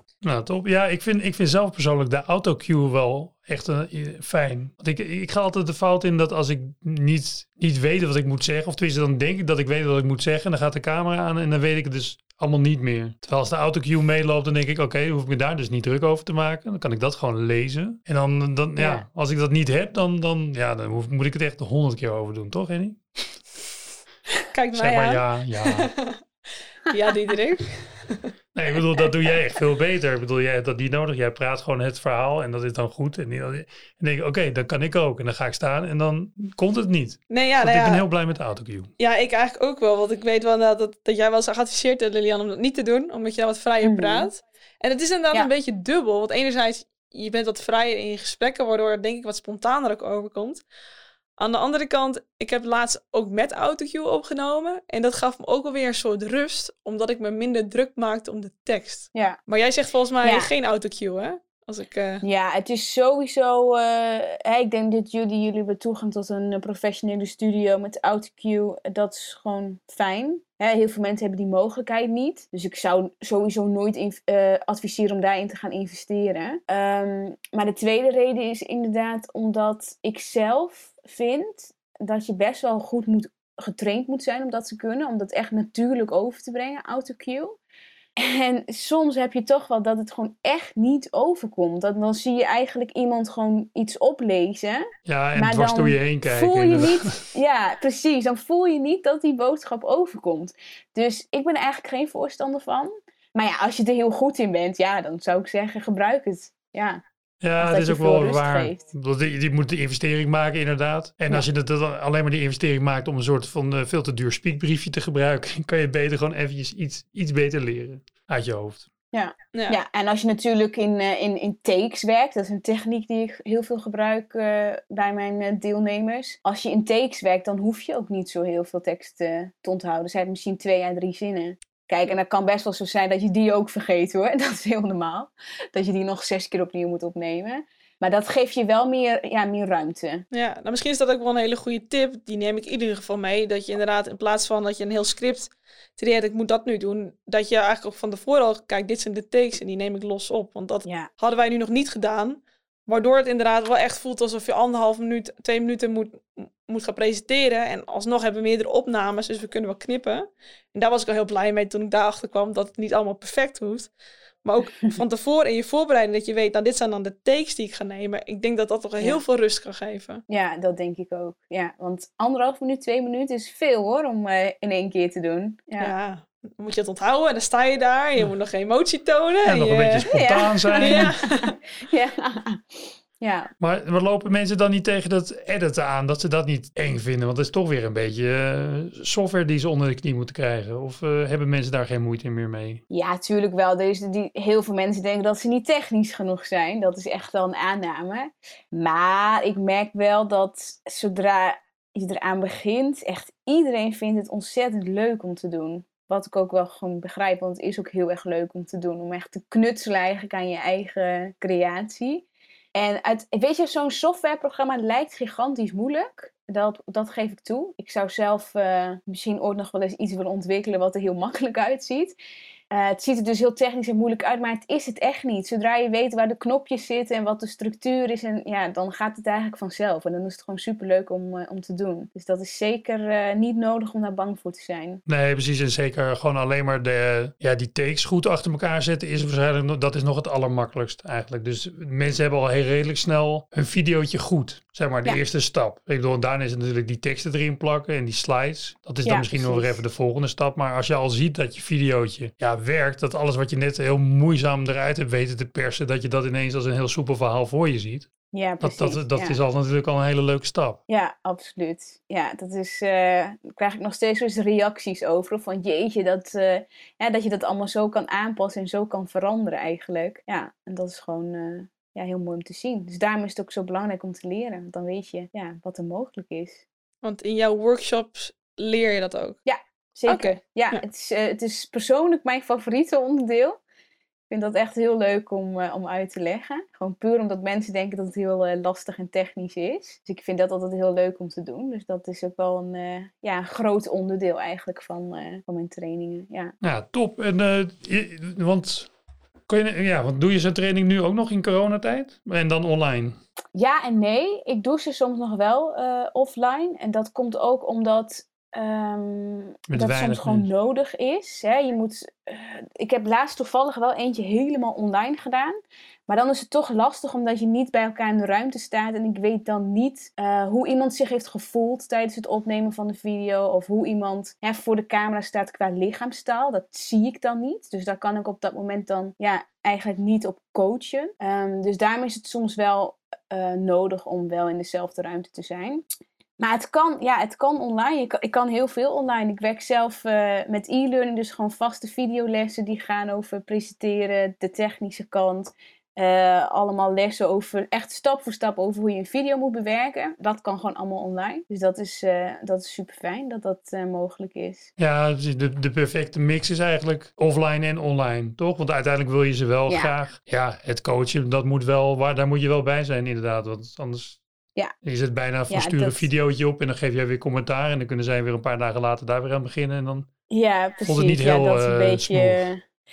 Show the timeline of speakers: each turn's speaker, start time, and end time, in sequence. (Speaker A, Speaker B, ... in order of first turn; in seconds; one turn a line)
Speaker A: 0.2-23.4
Speaker B: 18.8-19.0
Speaker C: 24.4-26.2
Speaker A: 24.8-25.9
Speaker C: 26.9-28.3
Speaker A: 28.5-38.9
Speaker C: 37.3-38.0
Speaker C: 39.0-50.6
Speaker B: 43.8-44.3
Speaker C: 51.4-62.2
Speaker B: 59.1-59.4
Speaker B: 60.2-60.5
Speaker B: 62.2-87.6
Speaker B: 88.2-107.0
Speaker A: 95.1-97.3
Speaker A: 107.4-118.9
Speaker B: 107.6-108.8
Speaker B: 119.1-140.2
Speaker C: 119.5-119.8
Speaker C: 140.3-163.9
Speaker C: 164.4-170.2
Speaker B: 170.3-175.9
Speaker C: 175.8-180.1
Speaker A: 179.4-181.1
Speaker B: 180.1-183.5
Speaker C: 180.8-181.6
Speaker A: 183.6-192.8
Speaker B: 192.9-222.2
Speaker B: 222.7-235.0
Speaker A: 235.1-258.1
Speaker B: 249.1-249.8
Speaker B: 258.3-259.4
Speaker A: 258.6-260.8
Speaker B: 260.9-276.6
Speaker C: 277.0-279.4
Speaker B: 279.5-283.6
Speaker C: 280.1-280.8
Speaker B: 284.3-296.5
Speaker A: 296.6-298.9
Speaker A: 299.5-303.2
Speaker B: 303.5-315.6
Speaker A: 309.7-310.5
Speaker B: 316.1-335.8
Speaker B: 336.4-354.7
Speaker A: 354.8-364.2
Speaker B: 359.7-359.9
Speaker A: 364.8-370.1
Speaker B: 365.5-366.1
Speaker B: 370.3-372.6
Speaker A: 370.8-372.5